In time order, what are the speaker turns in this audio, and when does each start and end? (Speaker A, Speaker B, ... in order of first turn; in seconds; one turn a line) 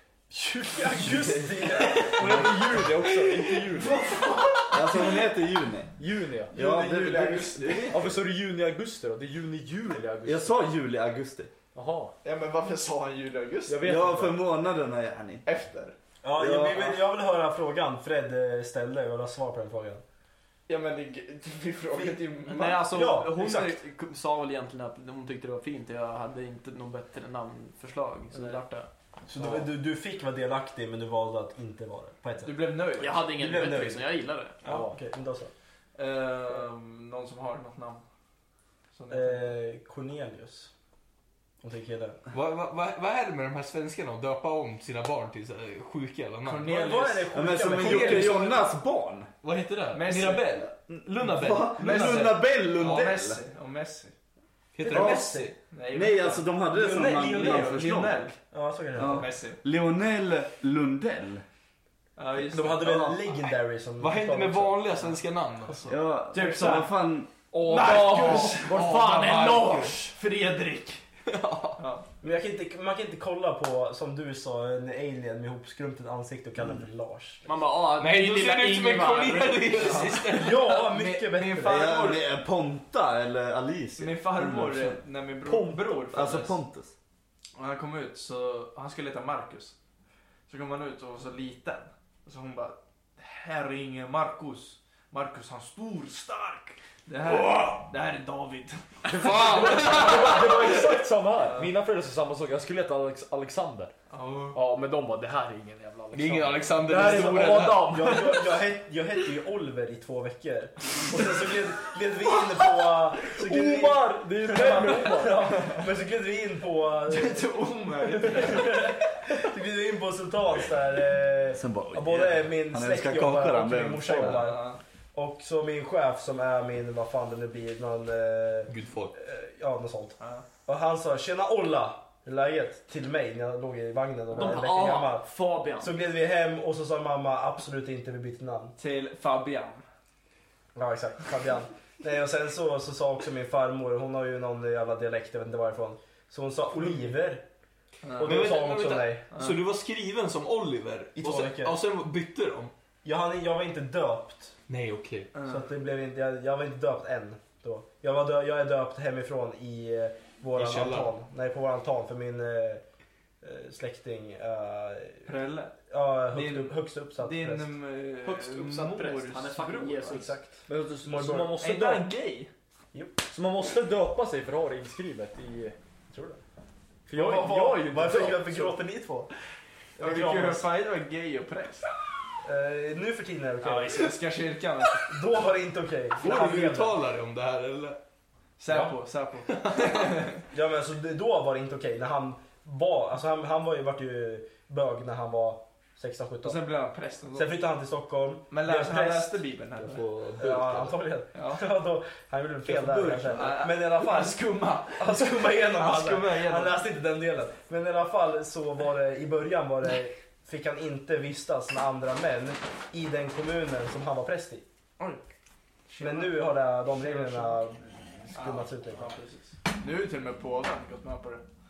Speaker A: 0.3-2.4
Speaker B: 1.1-1.4
Speaker C: 1.9-4.0
Speaker B: 2.2-2.7
Speaker D: 3.1-5.2
Speaker B: 4.7-6.0
Speaker C: 6.0-6.5
Speaker D: 6.5-8.1
Speaker B: 6.5-8.2
Speaker C: 7.9-10.6
Speaker B: 10.2-11.5
Speaker C: 11.7-12.1
Speaker D: 12.2-13.9
Speaker C: 13.7-14.4
Speaker B: 13.8-15.4
Speaker D: 15.4-15.9
Speaker A: 16.2-20.0
Speaker B: 16.4-17.0
Speaker D: 20.7-23.0
Speaker E: 22.4-28.9
Speaker A: 22.9-23.8
Speaker D: 28.3-28.6
Speaker A: 29.3-32.7
Speaker D: 29.4-29.6
Speaker D: 32.4-33.4
Speaker E: 33.0-34.6
Speaker A: 33.3-34.0
Speaker D: 34.6-34.9
Speaker A: 34.6-35.5
Speaker D: 35.9-38.0
Speaker D: 38.9-39.5
Speaker A: 39.1-40.7
Speaker A: 41.6-42.2
Speaker F: 42.3-46.8
Speaker D: 46.4-48.5
Speaker A: 46.7-48.4
Speaker B: 47.3-49.3
Speaker F: 47.8-48.5
Speaker F: 49.4-52.3
Speaker D: 49.9-50.7
Speaker B: 50.9-53.4
Speaker D: 51.7-54.1
Speaker F: 54.7-55.5
Speaker D: 54.9-58.4
Speaker A: 54.9-55.5
Speaker B: 54.9-55.3
Speaker B: 55.9-58.3
Speaker A: 56.7-57.5
Speaker A: 58.5-59.3
Speaker B: 59.0-61.4
Speaker D: 59.0-59.6
Speaker D: 62.2-63.1
Speaker A: 62.5-64.9
Speaker F: 64.0-66.0
Speaker B: 65.9-67.3
Speaker D: 66.3-66.9
Speaker C: 67.5-69.3
Speaker D: 67.7-71.0
Speaker F: 67.7-69.9
Speaker E: 67.8-70.1
Speaker F: 71.2-71.8
Speaker D: 71.8-72.0
Speaker A: 72.2-77.4
Speaker E: 77.5-80.1
Speaker F: 78.0-80.8
Speaker D: 79.7-82.3
Speaker A: 80.3-81.9
Speaker B: 81.6-85.0
Speaker D: 84.0-86.6
Speaker C: 85.4-86.0
Speaker B: 86.1-86.9
Speaker D: 87.5-89.7
Speaker D: 90.5-101.7
Speaker F: 97.3-97.7
Speaker C: 99.1-103.9
Speaker F: 99.1-100.7
Speaker D: 104.1-104.6
Speaker C: 104.5-108.5
Speaker F: 106.1-108.2
Speaker A: 107.0-117.5
Speaker C: 113.3-115.6
Speaker D: 117.1-119.0
Speaker A: 118.2-138.7
Speaker B: 121.5-124.5
Speaker D: 124.2-124.8
Speaker F: 128.7-129.1
Speaker D: 130.2-130.4
Speaker E: 134.3-135.9
Speaker D: 138.8-139.8
Speaker A: 140.7-147.4
Speaker D: 148.0-148.5
Speaker A: 148.2-149.2
Speaker F: 148.2-152.7
Speaker D: 149.3-149.6
Speaker A: 151.2-151.8
Speaker A: 153.0-154.5
Speaker F: 154.7-155.3
Speaker D: 155.3-155.7
Speaker A: 155.4-162.8
Speaker F: 160.5-161.1
Speaker A: 163.4-165.3
Speaker D: 165.2-165.8
Speaker A: 165.9-167.8
Speaker D: 166.3-170.6
Speaker E: 168.2-170.3
Speaker C: 170.7-172.1
Speaker A: 171.0-171.6
Speaker D: 171.6-172.5
Speaker C: 173.3-175.8
Speaker A: 176.1-176.4
Speaker C: 177.1-178.7
Speaker A: 177.1-179.3
Speaker A: 180.0-180.7
Speaker D: 180.0-181.9
Speaker A: 182.4-184.2
Speaker D: 183.6-185.1
Speaker A: 185.1-187.0
Speaker F: 186.2-188.0
Speaker D: 188.6-190.4
Speaker A: 188.7-188.9
Speaker F: 189.5-190.1
Speaker A: 190.5-196.6
Speaker D: 196.4-197.5
Speaker A: 197.3-199.4
Speaker D: 198.5-200.1
Speaker F: 199.8-201.0
Speaker A: 200.4-204.4
Speaker D: 201.3-201.6
Speaker F: 202.7-203.4
Speaker D: 202.8-206.8
Speaker A: 204.9-214.6
Speaker D: 215.9-217.6
Speaker A: 216.0-219.2
Speaker D: 218.3-221.4